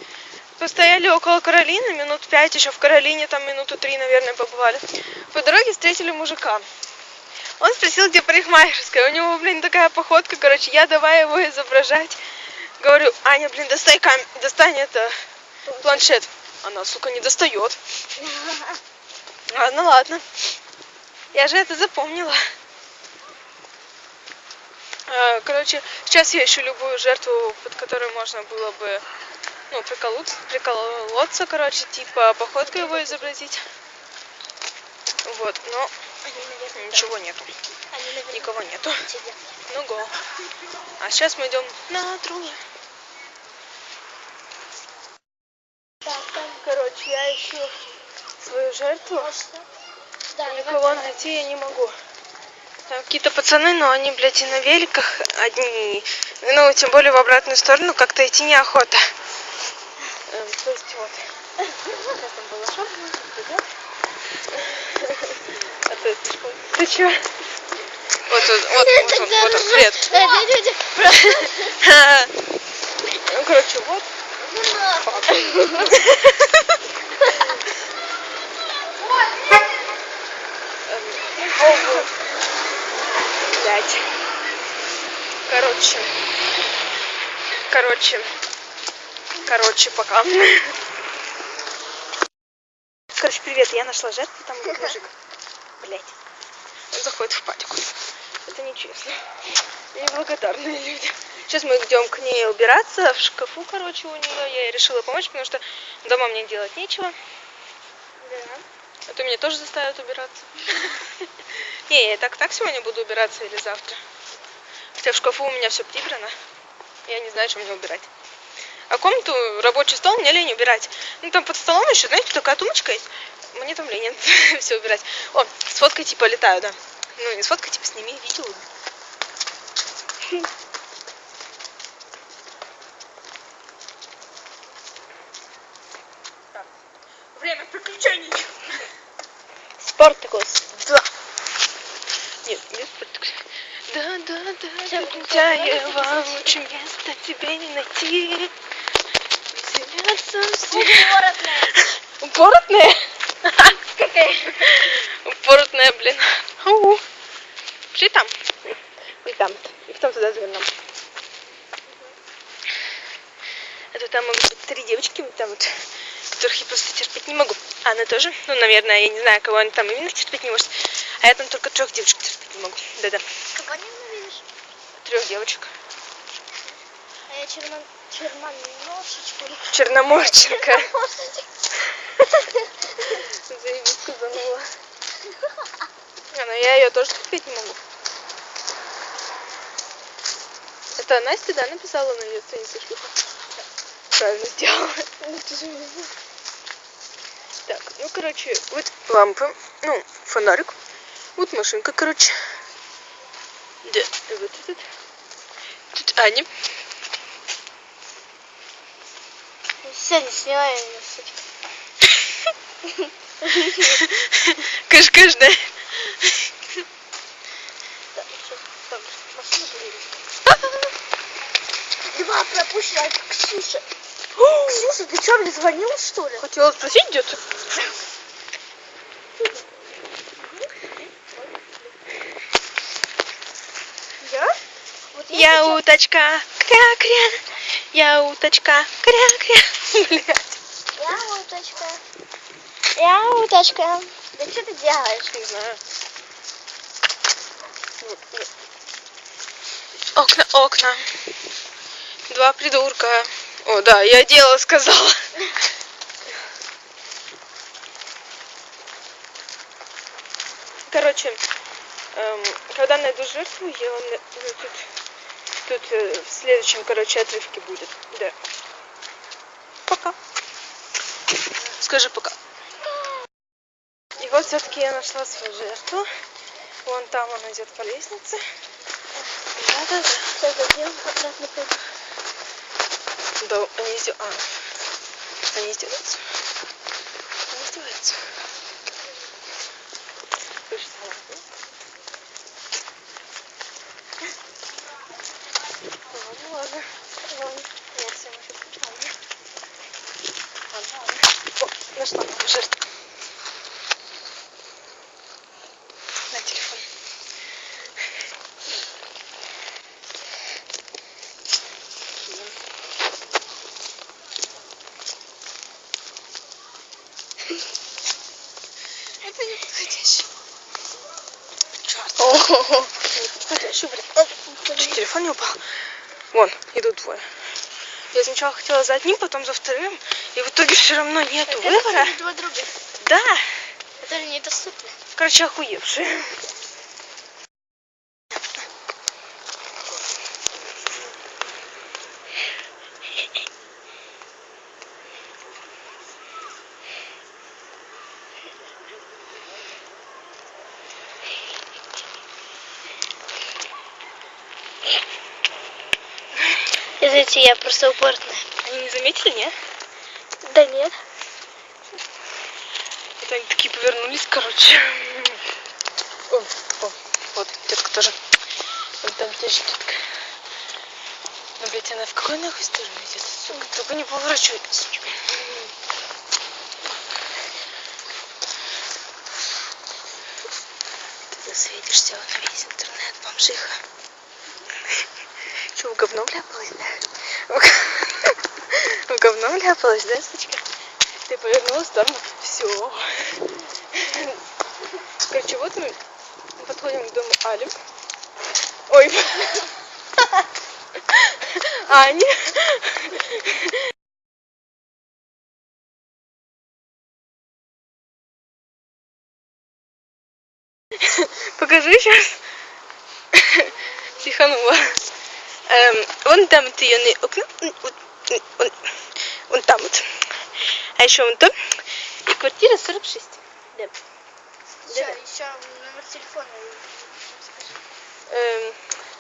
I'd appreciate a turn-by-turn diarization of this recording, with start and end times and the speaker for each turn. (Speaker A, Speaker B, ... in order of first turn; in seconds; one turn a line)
Speaker A: 0.6-6.7
Speaker A: 7.6-12.2
Speaker A: 12.8-15.2
Speaker B: 15.7-16.1
Speaker A: 15.8-17.8
Speaker B: 18.2-18.8
Speaker A: 19.5-20.2
Speaker A: 21.3-22.4
Speaker A: 25.1-29.0
Speaker A: 29.7-33.6
Speaker B: 32.6-33.3
Speaker A: 35.2-35.9
Speaker B: 36.2-37.1
Speaker A: 36.7-37.5
Speaker B: 37.9-39.4
Speaker A: 38.3-39.0
Speaker A: 39.7-40.1
Speaker A: 41.0-42.6
Speaker A: 46.1-47.7
Speaker A: 48.4-49.3
Speaker B: 49.1-49.6
Speaker B: 50.3-51.2
Speaker A: 50.4-51.9
Speaker A: 52.9-59.0
Speaker A: 60.3-61.2
Speaker A: 61.8-63.6
Speaker A: 64.5-67.2
Speaker A: 68.3-70.4
Speaker B: 68.6-71.7
Speaker A: 71.1-72.3
Speaker A: 73.2-74.1
Speaker B: 74.4-76.0
Speaker A: 75.0-76.8
Speaker A: 80.8-82.1
Speaker A: 83.5-84.1
Speaker A: 85.5-86.1
Speaker A: 87.7-88.3
Speaker A: 89.4-90.7
Speaker A: 93.1-95.1
Speaker A: 95.8-96.1
Speaker A: 96.9-97.9
Speaker A: 98.5-99.2
Speaker A: 99.9-107.2
Speaker B: 108.2-108.6
Speaker A: 109.1-111.1
Speaker A: 111.9-114.0
Speaker A: 115.0-116.3
Speaker A: 117.0-118.1
Speaker A: 118.9-128.7
Speaker A: 137.3-138.8
Speaker B: 139.8-140.7
Speaker A: 140.8-141.0
Speaker A: 142.4-148.5
Speaker B: 144.8-146.6
Speaker A: 149.5-153.8
Speaker B: 150.7-151.8
Speaker B: 154.0-154.7
Speaker A: 154.4-157.0
Speaker A: 157.9-158.3
Speaker A: 159.2-160.7
Speaker A: 163.9-165.7
Speaker A: 166.3-173.2
Speaker B: 173.5-174.4
Speaker A: 175.0-175.7
Speaker B: 177.3-181.5
Speaker A: 179.7-180.9
Speaker A: 182.9-184.7
Speaker A: 186.3-187.8
Speaker A: 191.0-193.1
Speaker A: 194.1-195.1
Speaker B: 195.2-196.1
Speaker A: 197.7-200.8
Speaker A: 201.4-202.4
Speaker A: 203.8-204.8
Speaker A: 205.9-206.5
Speaker B: 209.8-211.4
Speaker B: 212.8-214.0
Speaker A: 213.6-216.5
Speaker B: 218.1-220.1
Speaker A: 220.4-220.9
Speaker B: 222.1-223.8
Speaker A: 224.3-224.9
Speaker B: 224.6-226.4
Speaker A: 226.4-227.4
Speaker B: 230.6-231.6
Speaker B: 234.2-234.5
Speaker B: 235.1-235.8
Speaker A: 235.3-240.6
Speaker B: 241.0-242.0
Speaker B: 242.9-245.3
Speaker A: 245.3-245.8
Speaker A: 248.0-248.4
Speaker A: 250.2-251.0
Speaker A: 252.3-255.2
Speaker A: 260.9-261.4
Speaker A: 262.1-264.9
Speaker A: 265.6-268.3
Speaker A: 269.9-270.1
Speaker A: 271.7-272.4
Speaker A: 274.2-276.1
Speaker A: 276.8-278.4
Speaker A: 279.6-280.3
Speaker B: 280.4-281.8
Speaker A: 283.4-284.4
Speaker A: 285.5-286.2
Speaker A: 287.5-288.2
Speaker A: 290.7-291.4
Speaker A: 296.1-296.9
Speaker B: 297.3-297.6
Speaker A: 297.8-299.1
Speaker A: 300.7-302.8
Speaker A: 306.3-306.9
Speaker A: 319.2-320.2
Speaker A: 321.8-322.4
Speaker B: 322.2-322.9
Speaker A: 323.0-325.6
Speaker B: 324.4-325.0
Speaker A: 326.3-327.2
Speaker A: 328.1-332.2
Speaker B: 331.5-332.7
Speaker A: 333.0-333.5
Speaker B: 334.0-334.9
Speaker A: 335.1-336.3
Speaker B: 357.0-358.4
Speaker A: 358.6-359.5
Speaker B: 360.4-360.9
Speaker A: 363.2-365.4
Speaker A: 366.3-368.2
Speaker A: 369.0-370.0
Speaker A: 371.6-375.7
Speaker A: 381.3-383.8
Speaker A: 385.7-390.6
Speaker A: 391.3-393.4
Speaker A: 393.9-394.4
Speaker A: 395.3-396.0
Speaker A: 396.6-397.7
Speaker A: 398.9-399.7
Speaker A: 401.1-403.8
Speaker A: 411.1-412.4
Speaker A: 413.3-414.9
Speaker A: 415.7-418.9
Speaker A: 419.5-420.0
Speaker A: 421.0-421.5
Speaker A: 422.2-423.9
Speaker B: 424.8-427.8
Speaker A: 424.9-425.2
Speaker A: 428.3-428.8